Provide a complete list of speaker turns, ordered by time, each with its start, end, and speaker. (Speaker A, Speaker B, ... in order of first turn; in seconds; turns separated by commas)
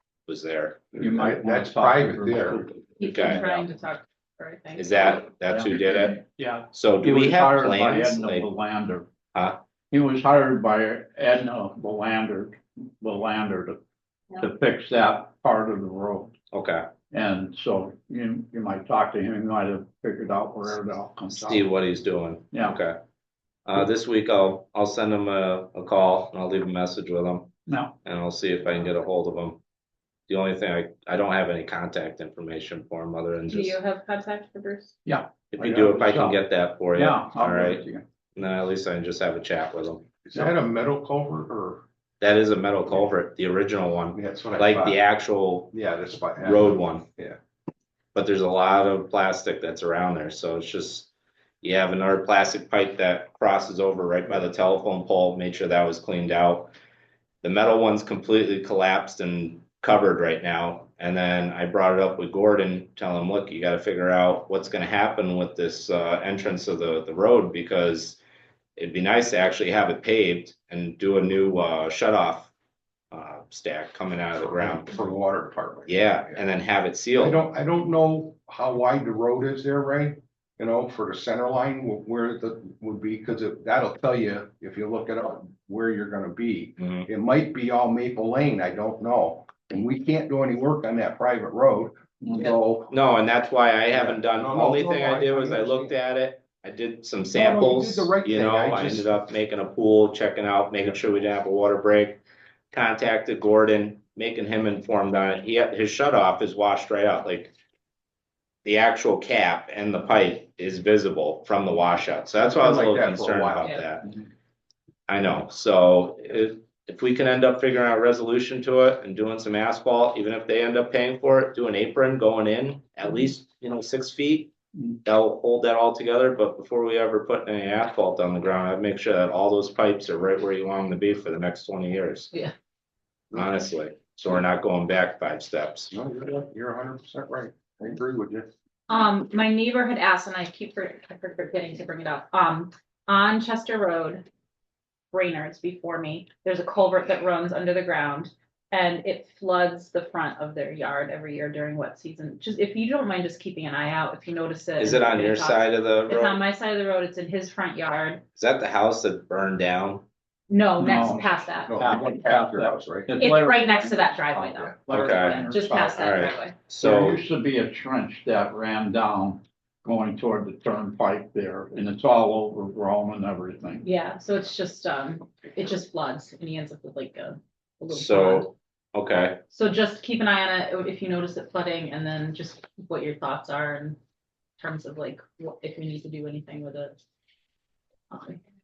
Speaker A: 0.3-0.8, Speaker B: 0.9-2.6, Speaker C: 1.0-3.6, Speaker D: 3.0-5.2, Speaker A: 3.0-3.4, Speaker A: 4.8-8.5, Speaker C: 5.5-9.1, Speaker A: 9.3-9.6, Speaker C: 9.9-13.8, Speaker C: 14.4-16.3, Speaker A: 16.5-16.9, Speaker C: 17.1-21.6, Speaker A: 21.3-23.0, Speaker C: 22.5-22.8, Speaker A: 23.6-27.5, Speaker C: 27.7-27.9, Speaker A: 28.0-29.6, Speaker A: 30.3-33.8, Speaker D: 33.5-34.9, Speaker C: 35.0-36.4, Speaker A: 35.5-37.8, Speaker C: 36.9-38.0, Speaker A: 38.4-40.0, Speaker B: 40.2-41.8, Speaker A: 42.2-45.7, Speaker B: 44.1-45.0, Speaker B: 45.7-47.4, Speaker A: 46.4-47.0, Speaker A: 48.1-51.1, Speaker A: 51.6-56.7, Speaker A: 57.4-68.2, Speaker A: 68.8-72.5, Speaker A: 73.1-75.1, Speaker B: 74.6-76.4, Speaker A: 75.8-77.4, Speaker B: 77.2-92.9, Speaker A: 86.8-87.1, Speaker A: 92.9-102.2, Speaker B: 93.9-95.9, Speaker B: 97.3-99.1, Speaker A: 102.7-107.5, Speaker A: 108.6-114.1, Speaker B: 112.4-113.8, Speaker A: 115.1-124.5, Speaker A: 125.0-132.3, Speaker A: 133.3-135.9, Speaker B: 135.9-138.5, Speaker D: 138.9-144.2, Speaker D: 145.1-158.2, Speaker A: 154.8-156.4, Speaker A: 158.3-160.0, Speaker D: 160.5-161.9, Speaker C: 160.8-166.2, Speaker B: 161.7-163.2, Speaker D: 163.2-166.5, Speaker A: 164.9-165.4, Speaker A: 165.9-167.2, Speaker C: 166.8-173.8, Speaker D: 173.8-178.5, Speaker A: 177.9-179.4, Speaker D: 179.5-184.0, Speaker D: 184.6-187.0, Speaker D: 188.1-188.4